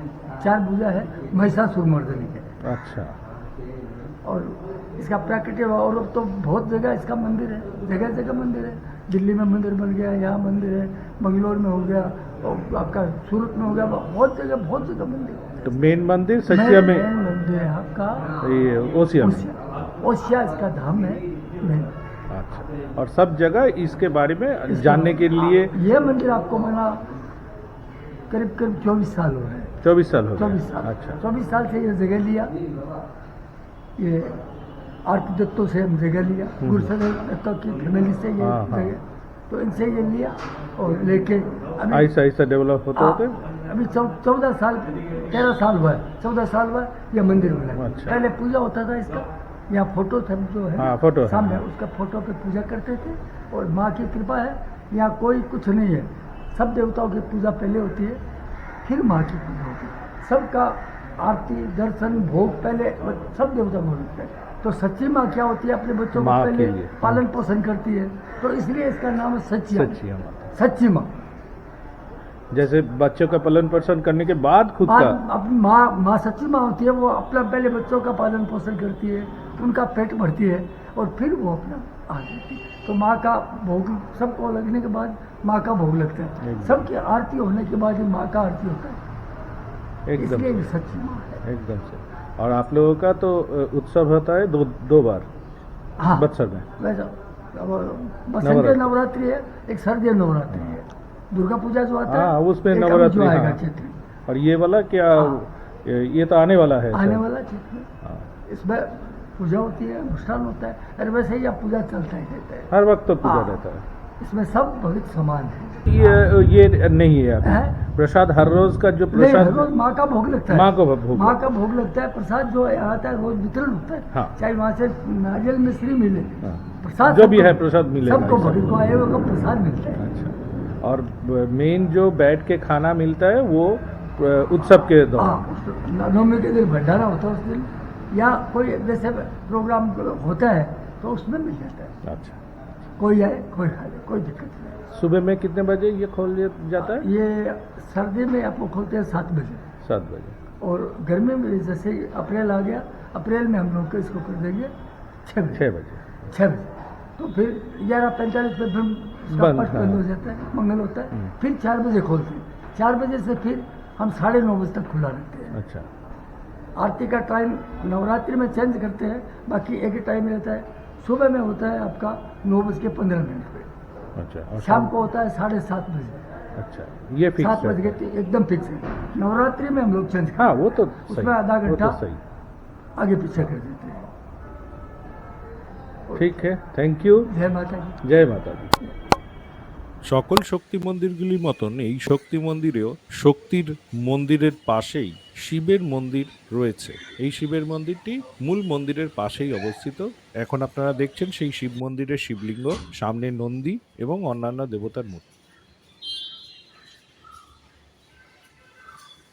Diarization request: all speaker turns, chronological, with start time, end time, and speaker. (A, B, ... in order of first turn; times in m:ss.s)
0:00.4-0:02.5 A
0:02.6-0:03.1 B
0:04.2-0:15.7 A
0:15.6-0:17.1 B
0:16.5-0:18.3 A
0:18.4-0:19.5 B
0:19.2-0:21.9 A
0:22.3-0:25.7 B
0:24.7-0:27.0 A
0:28.3-0:29.7 A
0:29.8-0:31.2 B
0:30.4-0:32.5 A
0:34.0-0:34.4 A
0:35.0-0:42.1 A
0:36.6-0:36.9 B
0:38.4-0:38.9 B
0:41.9-0:43.4 B
0:42.9-0:58.2 A
0:47.7-0:48.2 B
0:50.8-0:51.6 B
0:58.8-1:10.0 A
1:06.1-1:07.2 B
1:09.7-1:10.5 B
1:10.5-1:11.2 A
1:12.5-1:15.2 B
1:14.8-1:29.0 A
1:26.4-1:26.9 B
1:30.1-1:30.9 B
1:30.2-1:31.4 A
1:31.4-1:35.3 B
1:36.0-1:44.0 A
1:36.1-1:36.6 B
1:38.4-1:38.9 B
1:40.5-1:40.8 B
1:42.1-1:43.6 B
1:44.3-1:47.2 B
1:46.9-1:47.9 A
1:48.5-1:52.7 A
1:52.7-1:53.8 B
1:53.2-1:53.7 A
1:54.2-1:56.2 A
1:55.8-1:59.7 B
1:57.4-1:57.8 A
1:59.1-2:10.0 A
2:00.5-2:01.4 B
2:06.4-2:08.8 B
2:10.0-2:15.4 B
2:15.0-2:21.9 A
2:22.0-2:22.4 B
2:23.0-2:24.8 A
2:24.9-2:27.0 B
2:26.8-2:29.6 A
2:29.8-2:30.4 B
2:30.6-2:34.7 A
2:35.2-2:35.6 A
2:35.5-2:36.3 B
2:36.3-2:45.5 A
2:39.3-2:40.0 B
2:45.5-2:45.9 B
2:46.8-2:53.7 A
2:54.2-2:54.9 B
2:54.6-2:56.2 A
2:56.6-2:58.0 B
2:57.4-3:02.0 A
3:00.4-3:02.2 B
3:03.0-3:04.1 A
3:06.1-3:07.3 B
3:07.3-3:08.0 A
3:08.0-3:08.8 B
3:10.1-3:25.2 C
3:24.8-3:25.2 B